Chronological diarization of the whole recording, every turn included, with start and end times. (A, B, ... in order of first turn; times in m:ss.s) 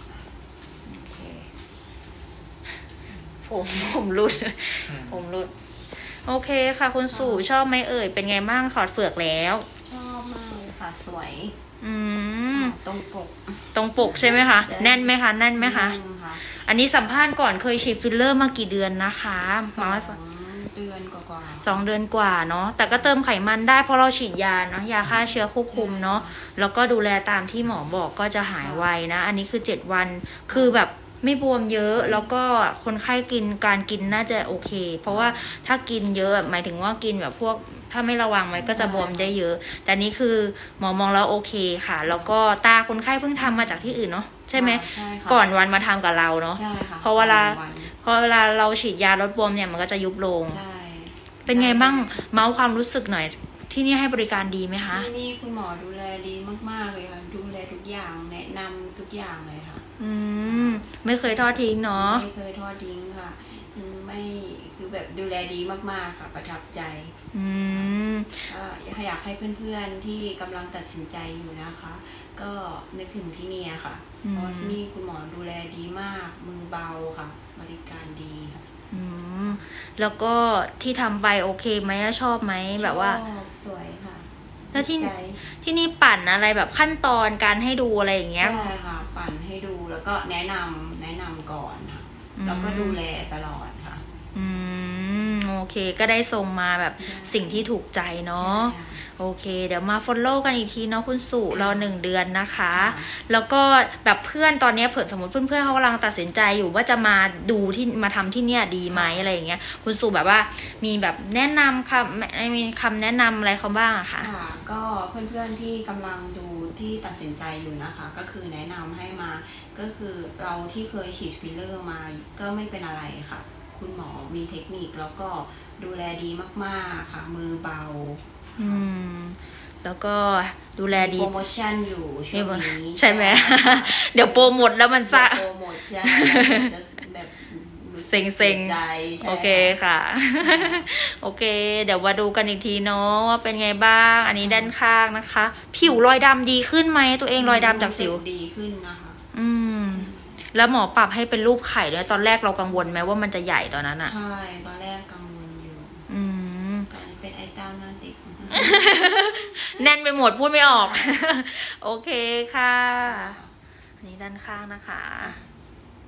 0:00.9-0:01.5 A
0:03.4-0:09.7 B
0:07.1-0:07.5 A
0:09.8-0:11.6 A
0:11.8-0:12.8 B
0:12.5-0:16.4 A
0:13.7-0:20.2 B
0:19.6-0:21.9 A
0:21.6-0:50.6 B
0:22.8-0:23.1 A
0:25.7-0:26.4 A
0:28.6-0:28.9 A
0:30.5-0:30.8 A
0:35.0-0:35.6 A
0:38.6-0:39.4 A
0:42.1-0:42.3 A
0:43.4-0:43.9 A
0:44.5-0:45.8 A
0:46.5-0:47.9 A
0:50.5-0:52.2 A
0:51.4-0:55.1 B
0:54.8-0:59.8 A
1:00.0-1:02.3 B
1:00.4-1:07.2 A
1:07.3-1:08.5 B
1:08.5-1:18.6 A
1:14.2-1:14.8 B
1:18.9-1:23.2 B
1:22.8-1:25.4 A
1:24.7-1:28.7 B
1:28.4-1:34.0 A
1:32.4-1:33.0 B
1:34.3-1:54.3 B
1:37.0-1:37.7 A
1:38.3-1:39.0 A
1:41.5-1:41.9 A
1:42.7-1:43.1 A
1:48.9-1:49.3 A
1:54.2-2:08.8 A
2:08.6-2:11.4 B
2:10.9-2:14.6 A
2:12.3-2:16.7 B
2:15.1-2:19.8 A
2:18.0-2:28.2 B
2:20.4-2:20.9 A
2:24.4-2:24.8 A
2:27.4-2:29.2 A
2:29.3-2:34.1 B
2:29.8-2:30.4 A
2:32.7-2:33.0 A
2:34.0-2:36.1 A
2:36.1-2:36.9 B
2:36.9-2:39.9 A
2:38.5-2:43.4 B
2:40.6-2:41.2 A
2:43.0-2:43.5 A
2:44.0-2:45.4 B
2:45.2-2:45.4 A